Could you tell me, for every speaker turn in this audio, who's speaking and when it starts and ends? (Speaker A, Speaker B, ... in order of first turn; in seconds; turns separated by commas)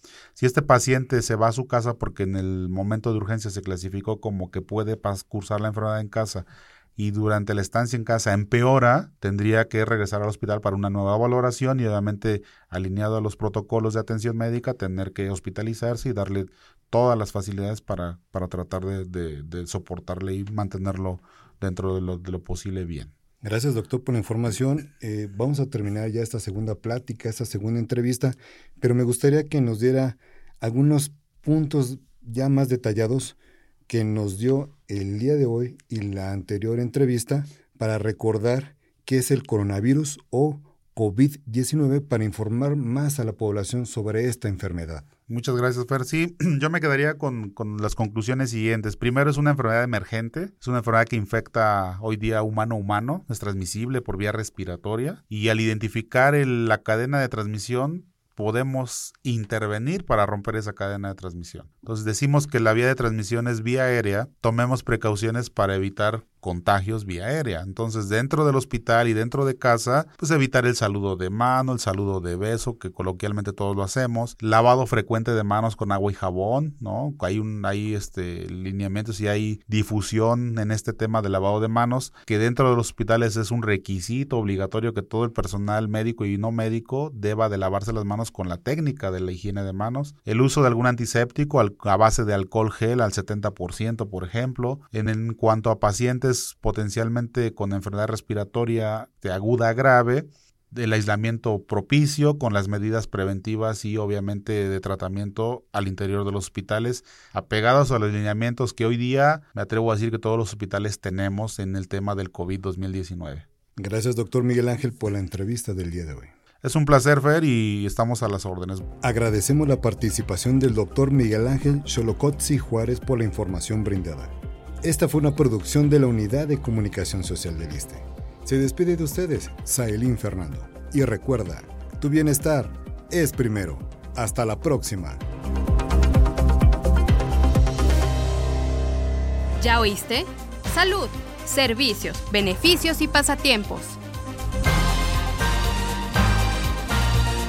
Speaker A: 0.4-23.1, Speaker B: 23.4-45.1, Speaker A: 45.3-113.5, Speaker B: 113.8-116.3, Speaker A: 116.6-118.9, Speaker B: 119.0-135.2, Speaker C: 139.6-144.0